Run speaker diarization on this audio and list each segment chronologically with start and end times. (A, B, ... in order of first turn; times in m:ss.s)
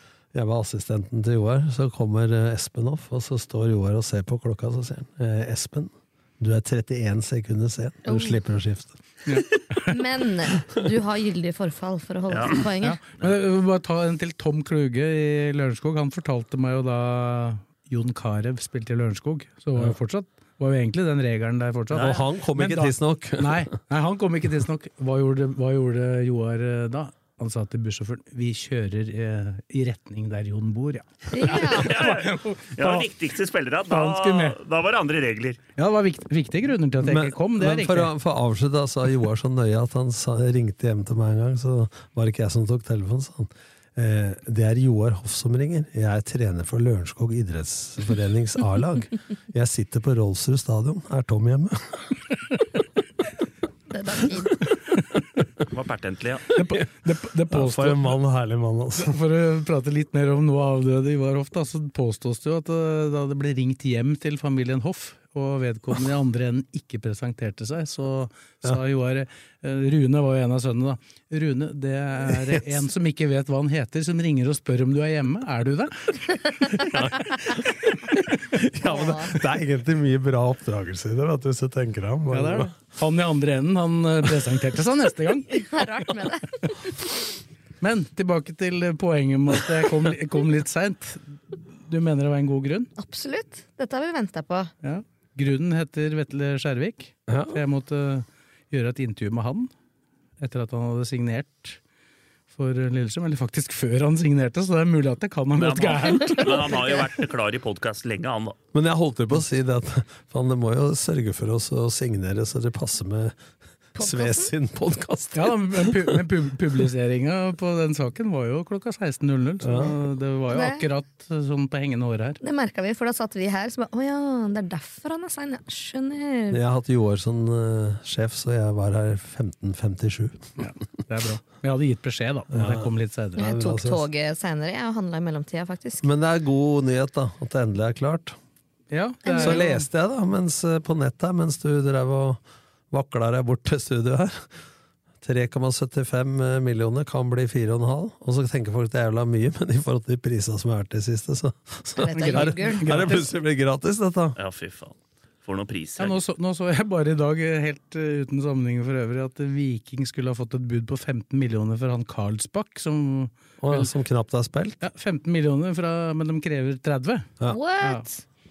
0:00.3-0:09.0 A
0:08.0-0:08.4 B
0:09.2-0:10.0 C
0:09.8-0:13.0 B
0:12.3-0:12.6 D
0:12.8-0:33.1 C
0:21.9-0:22.2 D
0:21.9-0:23.7 A
0:31.3-0:32.0 B
0:31.4-0:35.6 D
0:33.9-0:34.6 C
0:35.8-0:38.1 C
0:37.0-0:52.0 A
0:53.9-0:54.7 B
0:55.7-0:56.5 D
0:56.5-0:58.2 C
0:57.5-0:59.2 A
0:59.0-1:16.8 C
1:12.3-1:12.8 A
1:16.9-1:22.7 A
1:17.1-1:17.4 B
1:18.8-1:19.4 B
1:22.3-1:25.6 C
1:25.5-1:26.7 B
1:27.8-1:32.9 C
1:33.0-1:34.7 B
1:34.8-1:39.7 C
1:37.3-1:37.6 A
1:40.4-1:41.8 C
1:42.5-1:47.0 C
1:45.6-1:48.6 D
1:46.5-1:46.8 B
1:48.7-1:53.4 A
1:53.9-1:56.2 A
1:54.0-1:54.5 B
1:55.3-2:02.4 C
1:59.6-1:59.9 A
2:00.5-2:00.8 B
2:02.4-2:06.6 B
2:06.5-2:10.6 A
2:10.6-2:13.5 C
2:12.5-2:14.1 A
2:13.4-2:16.1 B
2:16.0-2:18.4 A
2:18.9-2:19.8 C
2:19.2-2:19.7 B
2:19.4-2:24.5 A
2:25.2-2:34.4 A
2:32.0-2:33.1 B
2:32.1-2:33.3 C
2:34.4-2:36.2 D
2:36.0-2:43.9 C
2:43.6-2:44.8 A
2:44.8-2:47.3 C
2:47.4-2:48.2 B